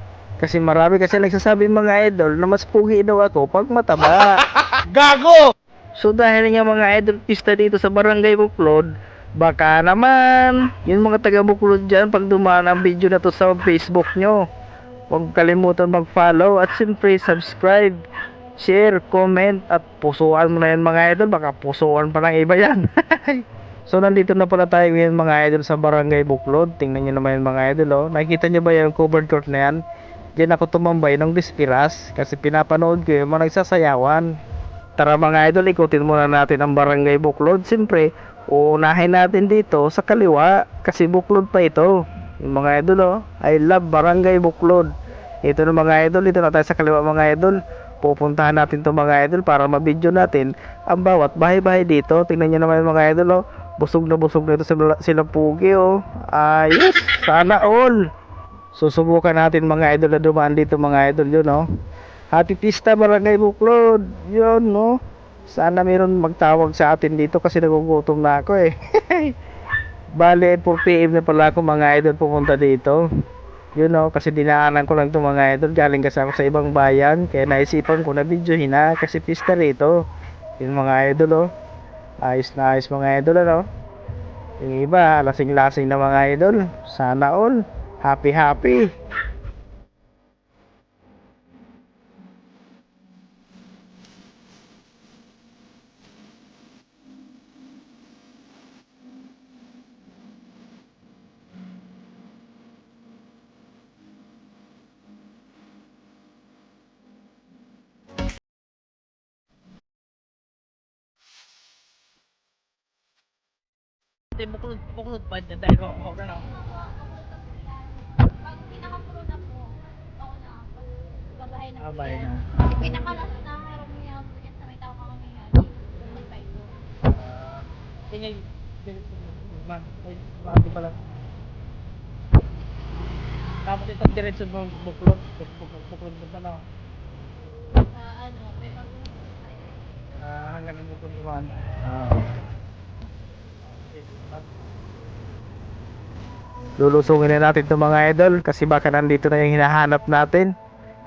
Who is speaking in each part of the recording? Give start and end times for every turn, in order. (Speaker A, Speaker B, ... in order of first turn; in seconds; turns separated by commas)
Speaker A: 0.4-14.4, Speaker A: 15.1-18.0, Speaker A: 18.6-29.8, Speaker A: 30.4-34.3, Speaker A: 35.0-44.9, Speaker A: 45.4-58.0, Speaker A: 58.7-61.6, Speaker A: 62.3-69.4, Speaker A: 70.1-73.0, Speaker A: 73.8-79.9, Speaker A: 80.6-81.5, Speaker A: 82.2-83.7, Speaker A: 84.6-88.9, Speaker A: 114.3-116.5, Speaker B: 116.8-120.8, Speaker A: 121.8-122.8, Speaker B: 122.9-126.7, Speaker A: 128.1-131.0, Speaker A: 133.7-136.6, Speaker B: 138.0-139.3, Speaker A: 140.2-142.3, Speaker A: 146.8-150.5